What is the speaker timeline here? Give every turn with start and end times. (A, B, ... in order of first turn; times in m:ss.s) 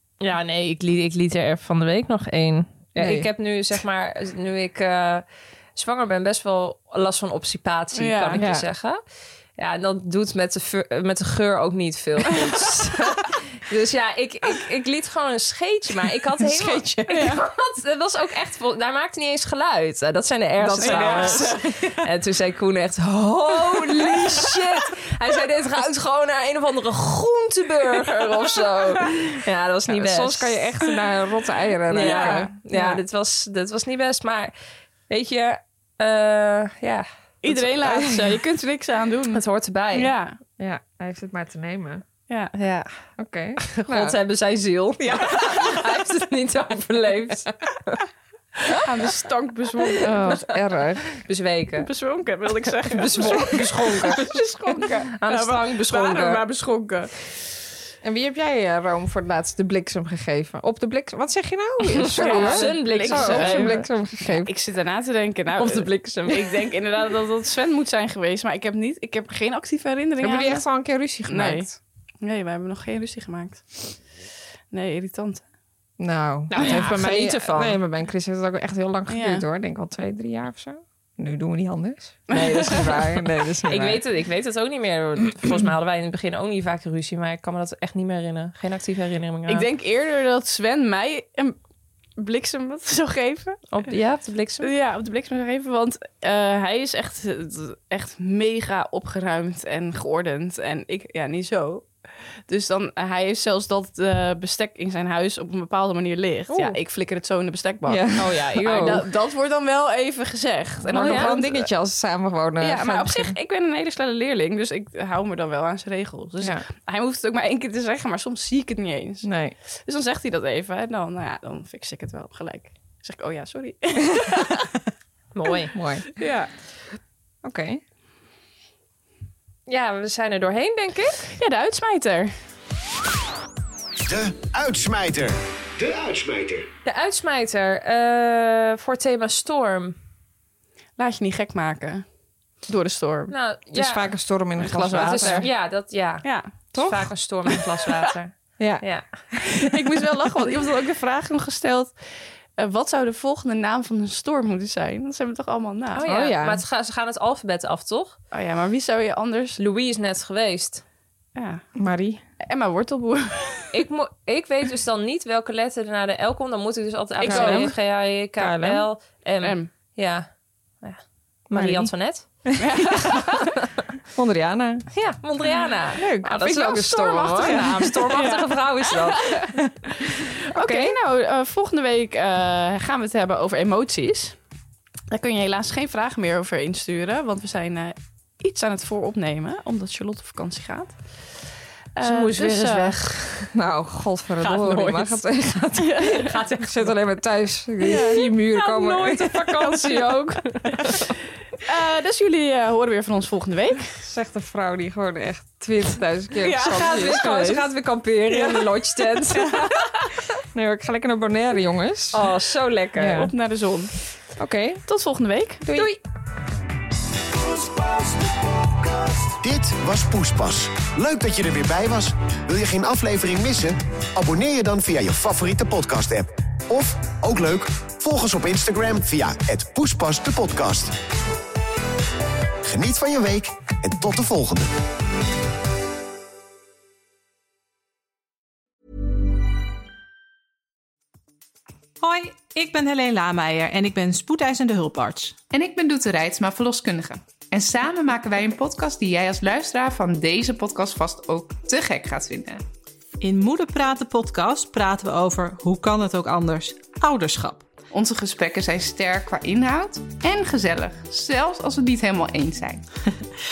0:00.2-0:05.2 A
0:03.0-0:03.3 B
0:05.8-0:09.0 A
0:07.9-0:08.4 C
0:08.4-0:08.6 B
0:09.6-0:30.6 A
0:16.4-0:17.2 B
0:17.1-0:17.4 C
0:20.6-0:22.0 B
0:20.8-0:21.6 C
0:23.9-0:24.6 B
0:29.9-0:33.0 B
0:31.9-0:34.5 A
0:31.9-0:32.5 C
0:35.1-0:37.0 A
0:37.4-0:39.4 C
0:37.8-0:38.4 B
0:39.3-0:40.1 A
0:39.9-0:40.4 C
0:40.6-0:42.0 B
0:42.5-0:42.9 A
0:43.2-0:44.2 B
0:43.6-0:48.0 A
0:45.1-0:45.7 C
0:48.8-0:50.4 C
0:50.0-0:51.0 B
0:51.1-0:51.9 A
0:51.8-0:57.1 C
0:52.8-0:56.4 A
0:53.2-0:54.3 B
0:58.0-1:04.5 B
1:01.9-1:03.8 A
1:02.2-1:10.6 C
1:05.6-1:06.7 A
1:10.2-1:11.7 B
1:11.3-1:11.7 C
1:12.2-1:13.9 C
1:14.7-1:15.4 C
1:16.0-1:24.0 B
1:16.5-1:17.8 A
1:19.1-1:19.4 C
1:22.3-1:23.0 C
1:23.7-1:29.7 A
1:29.5-1:31.6 C
1:32.2-1:33.7 C
1:33.7-1:34.7 A
1:34.6-1:41.9 C
1:42.5-1:51.7 C
1:47.9-1:49.0 B
1:48.2-1:49.0 A
1:50.9-1:53.4 B
1:50.9-1:51.3 A
1:52.6-1:59.3 C
1:59.2-1:59.6 B
1:59.8-2:04.7 C
2:05.3-2:05.7 A
2:05.7-2:06.2 B
2:06.2-2:06.5 C
2:07.4-2:07.8 B
2:09.7-2:11.3 A
2:11.4-2:12.3 C
2:14.0-2:16.7 D
2:16.8-2:19.9 A
2:21.0-2:22.0 C
2:22.6-2:23.3 C
2:23.3-2:24.1 A
2:23.7-2:25.5 B
2:24.6-2:25.5 C
2:24.9-2:29.0 A
2:26.2-2:26.5 C
2:26.7-2:27.1 B
2:28.6-2:29.5 B
2:29.6-2:31.9 C
2:32.6-2:36.0 C
2:35.9-2:38.2 A
2:36.0-2:36.6 B
2:38.3-2:39.6 C
2:39.6-2:40.8 A
2:41.3-2:41.6 C
2:41.8-2:42.2 B
2:42.4-2:43.7 C
2:43.7-2:50.3 A
2:47.2-2:47.7 C
2:47.2-2:47.8 B
2:48.4-2:48.8 B
2:49.4-2:49.7 C
2:50.8-2:53.6 A
2:51.5-2:51.9 B
2:52.5-2:53.2 B
2:52.6-2:53.3 C
2:54.1-2:54.9 B
2:54.9-2:59.2 A
2:56.0-2:58.1 B
2:57.3-3:04.4 C
3:00.6-3:01.0 B
3:05.1-3:11.0 C
3:12.0-3:13.0 C
3:12.0-3:13.5 A
3:13.5-3:20.0 B
3:14.4-3:15.2 A
3:15.8-3:16.3 C
3:16.1-3:16.9 A
3:17.9-3:18.2 C
3:17.9-3:21.2 A
3:21.6-3:23.9 C
3:24.0-3:27.7 B
3:26.4-3:29.6 A
3:28.3-3:29.6 B
3:29.4-3:29.7 C
3:30.5-3:32.3 B
3:32.1-3:33.3 A
3:32.9-3:33.3 B
3:33.2-3:33.9 C
3:34.4-3:34.8 B
3:34.9-3:35.6 C
3:35.6-3:35.9 B
3:35.7-3:36.0 A
3:37.4-3:51.0 D
3:52.6-3:54.7 D
4:02.0-4:05.4 E
4:05.5-4:12.6 F
4:13.2-4:17.7 E
4:17.9-4:22.8 F